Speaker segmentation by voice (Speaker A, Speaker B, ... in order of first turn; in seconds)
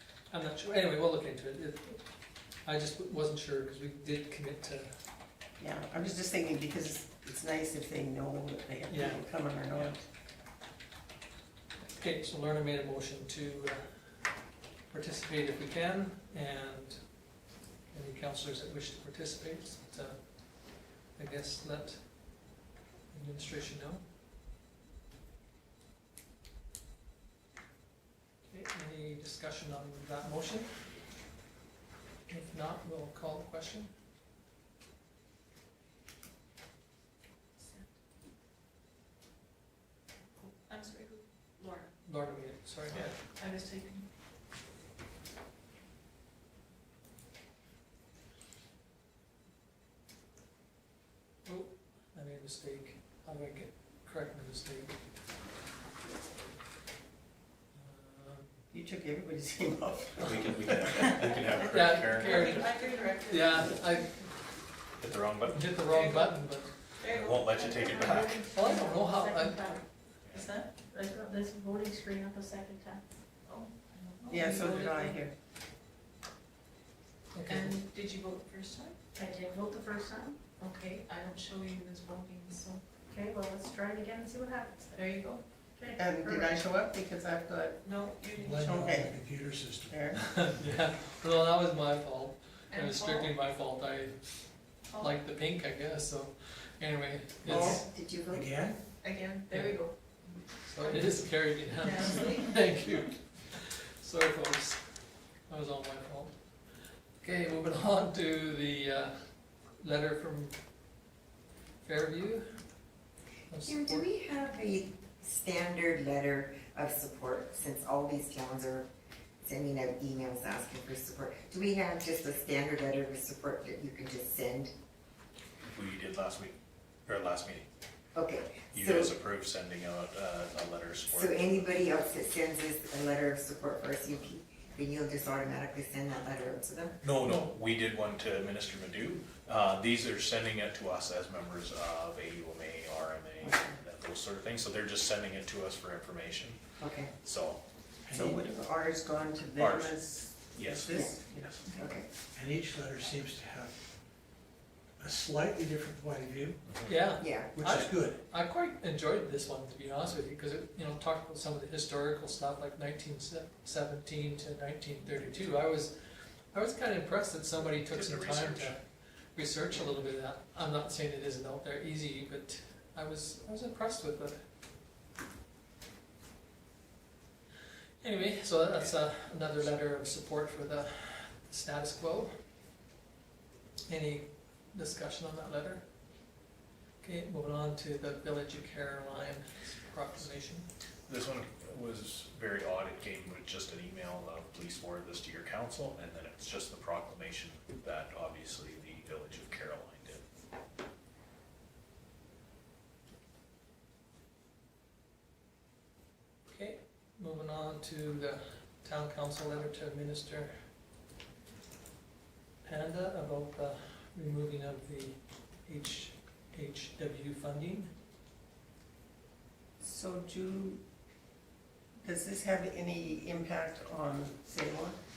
Speaker A: 0.3-2.0, 2.6-4.9, 8.9-9.2, 11.9-13.9, 14.9-17.1, 17.9-20.2, 21.1-22.0, 23.1-24.0, 28.5-30.7, 32.3-33.9, 42.0-43.1, 51.4-54.9, 57.7-58.6, 61.6-64.3, 65.5-66.8, 68.4-69.8, 74.4-75.1, 77.3-77.8, 90.4-97.8, 99.5-99.8, 100.6-104.8, 105.5-106.3, 107.2-110.5, 111.8-112.5, 113.5-114.1, 156.8-165.9, 166.5-168.8, 169.3-174.4, 178.0-182.3, 183.9-185.8, 187.0-190.7, 206.5-210.5, 212.6-217.9
Speaker B: 5.6-10.0, 58.7-61.1, 74.3-75.3, 86.0-87.8, 88.4-89.2, 89.9-90.2, 97.5-97.8, 148.1-151.8, 219.8-220.8, 222.0-225.0
Speaker C: 37.6-37.9, 40.5-41.9, 43.3-44.0, 62.1-64.0, 65.9-66.3, 67.0-68.2, 70.3-70.7, 73.5-75.0, 77.5-79.0, 80.5-82.8, 84.9-85.4, 87.8-88.8, 92.7-93.3, 94.9-95.2, 99.0-100.3, 100.8-101.2, 101.8-102.7
Speaker D: 60.2-62.6, 65.0-65.8, 67.0-68.5, 70.2-70.5, 125.6-127.7, 128.7-131.8, 137.0-146.6, 147.2-147.6, 149.6-151.6, 156.7-156.9, 167.8-168.7, 191.1-200.2
Speaker E: 68.0-69.7, 70.9-73.0, 79.1-80.5, 83.1-85.0, 85.8-86.5
Speaker F: 88.4-89.9, 98.3-98.8, 148.1-148.3, 152.3-153.8, 155.0-156.6, 157.6-158.2
Speaker G: 97.5-98.5, 113.6-118.9, 119.4-124.7, 128.1-129.1, 131.1-137.0, 143.4-143.8, 146.8-147.1, 151.7-152.1, 157.2-157.5